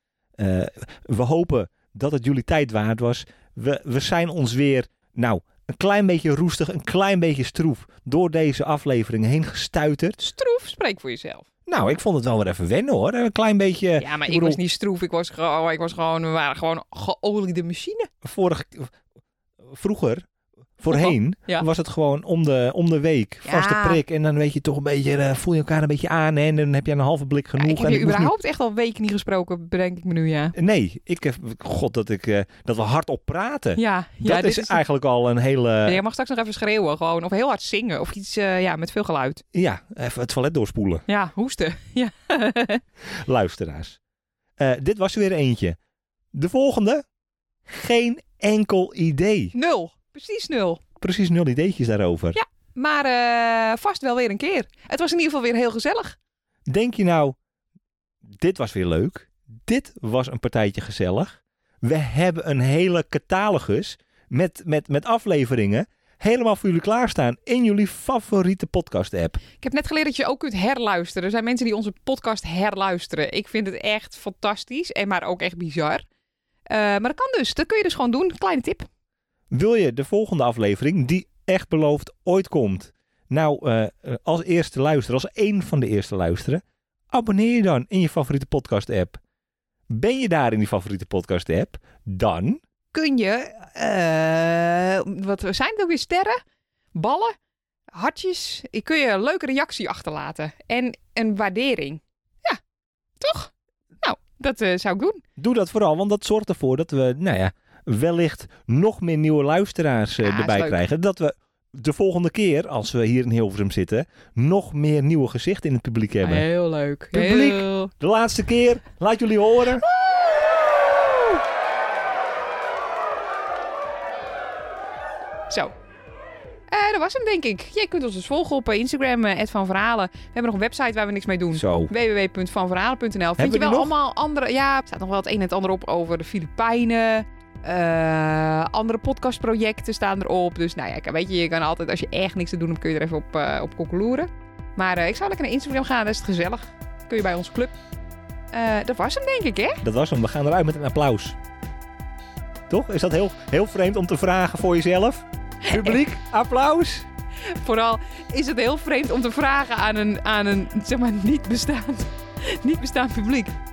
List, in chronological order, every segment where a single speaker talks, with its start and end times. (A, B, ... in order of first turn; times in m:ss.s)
0:00.4-0:10.2 A
0:10.2-0:11.5 B
0:11.7-0:14.6 A
0:14.0-0:18.1 B
0:18.2-0:18.9 A
0:19.6-0:20.2 A
0:20.8-0:28.3 A
0:20.9-0:21.7 B
0:23.4-0:24.0 B
0:27.6-0:30.6 B
0:30.6-0:36.0 A
0:33.8-0:34.8 B
0:35.8-0:39.4 B
0:39.5-0:41.0 A
0:41.1-0:42.8 B
0:43.1-0:44.0 A
0:44.6-0:45.8 A
0:46.3-0:47.0 A
0:47.7-0:49.5 A
0:49.5-0:50.8 B
0:51.0-0:52.4 A
0:52.4-0:56.2 B
0:56.7-0:57.4 A
0:58.3-1:09.4 A
1:09.6-1:16.0 B
1:16.7-1:18.9 B
1:19.5-1:29.2 A
1:29.9-1:32.6 A
1:32.9-1:36.4 B
1:37.0-1:37.4 B
1:37.9-1:42.6 B
1:43.2-1:43.5 B
1:44.0-1:45.2 B
1:45.4-1:56.5 A
1:50.2-1:50.8 B
1:56.2-1:57.9 B
1:57.1-1:59.8 A
1:59.9-2:01.4 B
2:06.7-2:27.7 B
2:11.6-2:11.9 A
2:13.4-2:13.9 A
2:28.5-2:29.8 B
2:29.8-2:31.4 A
2:32.7-2:37.1 A
2:35.6-2:36.0 B
2:37.6-2:43.6 B